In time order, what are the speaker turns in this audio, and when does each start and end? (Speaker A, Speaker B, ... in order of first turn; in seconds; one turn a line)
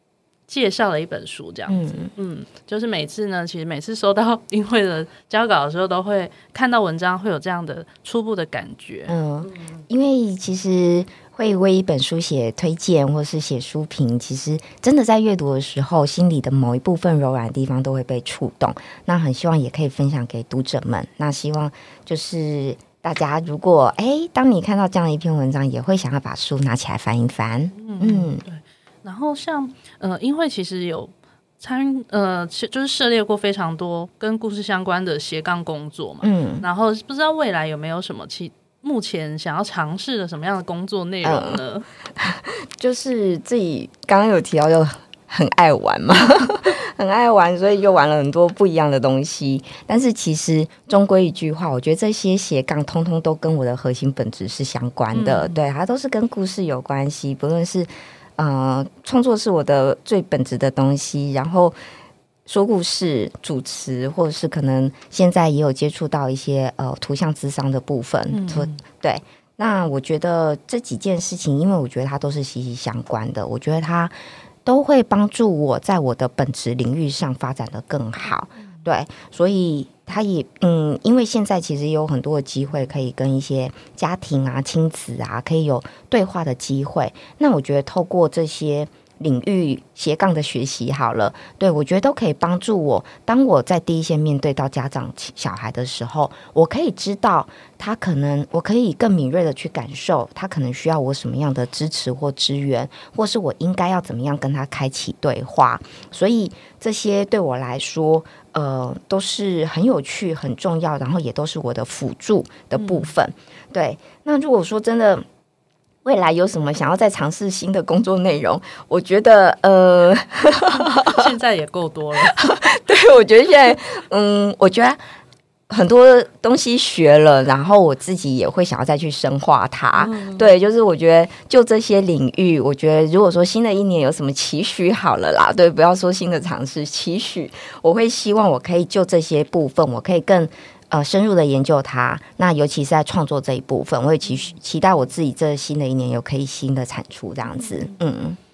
Speaker A: 0.5-9.6
Speaker B: 1.7-2.1
Speaker B: 9.1-28.4
Speaker A: 27.8-41.9
Speaker B: 36.2-36.7
Speaker B: 41.2-41.6
Speaker B: 42.2-61.8
Speaker A: 55.1-55.6
Speaker B: 62.5-115.2
Speaker A: 68.3-68.8
Speaker A: 112.8-113.1
Speaker B: 116.0-121.3
Speaker A: 120.7-122.6
Speaker B: 122.3-125.0
Speaker B: 125.7-148.4
Speaker A: 130.0-130.5